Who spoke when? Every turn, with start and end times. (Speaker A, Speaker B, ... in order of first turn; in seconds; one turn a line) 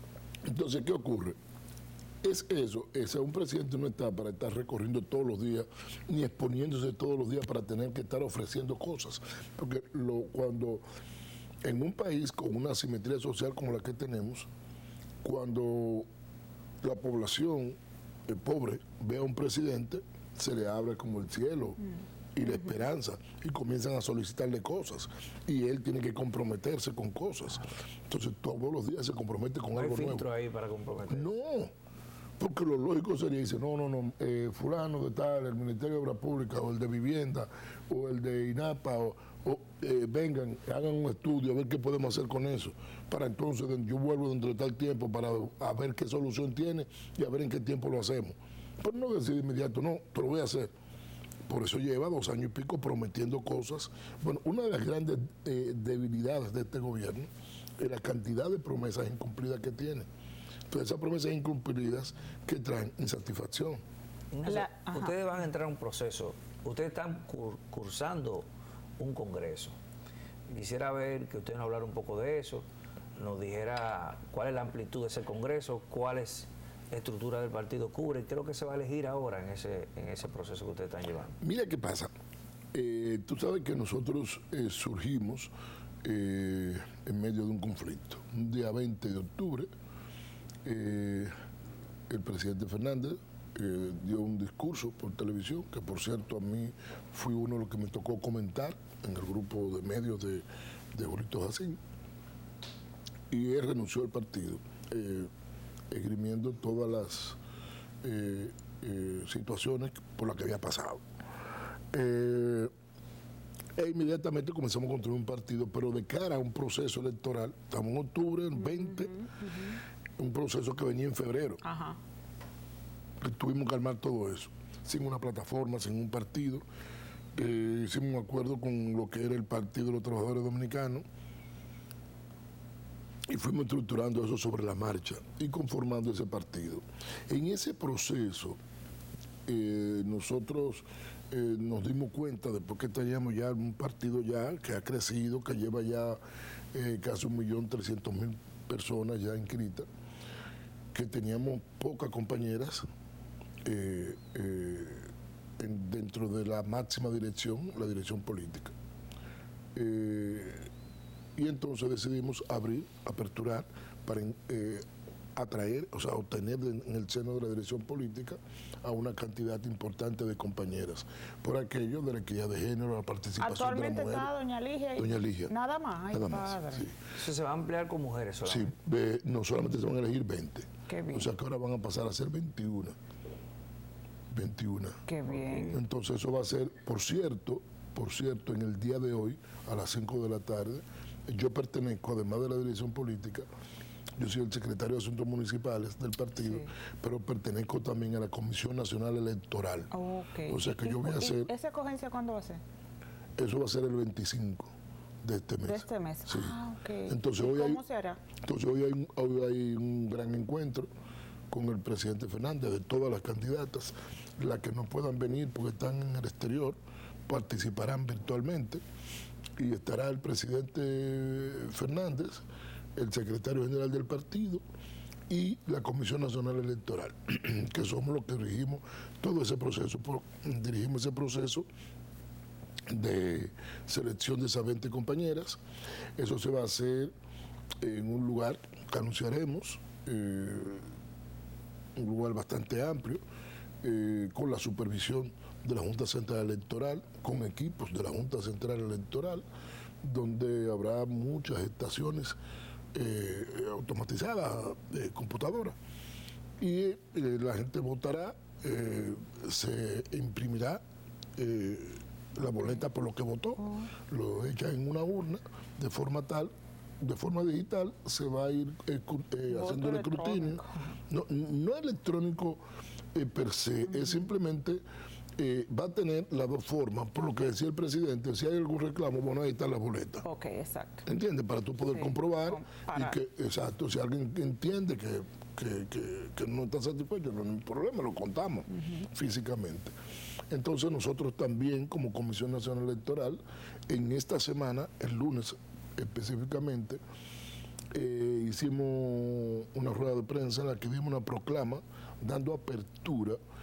Speaker A: 0.5-1.4
Speaker A: 2.2-10.8
Speaker A: 11.6-14.5
Speaker A: 15.2-16.1
Speaker A: 16.8-21.8
Speaker A: 22.3-30.3
Speaker B: 29.7-31.3
Speaker A: 31.1-31.7
Speaker A: 32.4-50.7
Speaker A: 51.5-57.3
Speaker A: 57.8-60.1
Speaker A: 60.7-63.8
Speaker B: 64.3-68.5
Speaker C: 64.5-65.2
Speaker B: 69.0-69.8
Speaker B: 70.5-72.7
Speaker B: 73.2-81.3
Speaker A: 81.4-82.1
Speaker A: 82.7-85.5
Speaker A: 86.0-89.7
Speaker A: 90.6-91.3
Speaker A: 92.1-101.8
Speaker A: 103.3-105.3
Speaker A: 105.9-107.4
Speaker A: 108.0-111.0
Speaker A: 111.9-112.7
Speaker A: 113.8-119.1
Speaker C: 118.7-119.8
Speaker A: 120.2-121.6
Speaker C: 121.6-122.0
Speaker A: 123.2-126.6
Speaker A: 127.3-131.0
Speaker A: 133.3-138.6
Speaker A: 139.4-146.2
Speaker A: 146.7-149.9
Speaker A: 150.9-152.8
Speaker A: 153.6-155.1
Speaker A: 155.6-158.7
Speaker A: 159.7-160.7
Speaker A: 161.3-164.8
Speaker A: 165.3-174.3
Speaker C: 173.4-176.9
Speaker A: 175.0-175.5
Speaker A: 176.1-176.9
Speaker B: 177.1-178.7
Speaker A: 178.4-182.9
Speaker C: 180.9-181.3
Speaker A: 184.3-185.0
Speaker C: 185.1-185.7
Speaker A: 185.6-193.4
Speaker A: 194.2-199.9
Speaker C: 196.4-196.7
Speaker C: 199.9-202.6
Speaker A: 200.5-201.5
Speaker A: 203.4-204.7
Speaker A: 205.2-207.8
Speaker C: 205.6-208.2
Speaker A: 208.4-210.9
Speaker A: 211.5-218.8
Speaker A: 219.6-222.4
Speaker A: 222.9-224.6
Speaker A: 225.3-231.7
Speaker A: 232.9-235.6
Speaker A: 236.2-237.1
Speaker A: 237.8-240.8
Speaker A: 241.9-243.2
Speaker A: 243.8-249.4
Speaker A: 250.0-252.4
Speaker A: 252.9-255.8
Speaker A: 256.6-260.8
Speaker A: 261.4-272.6
Speaker C: 269.5-270.7
Speaker A: 273.1-274.8
Speaker A: 275.4-280.2
Speaker C: 280.2-281.0
Speaker A: 281.1-289.9
Speaker C: 281.9-283.1
Speaker A: 290.5-297.0
Speaker A: 297.9-303.4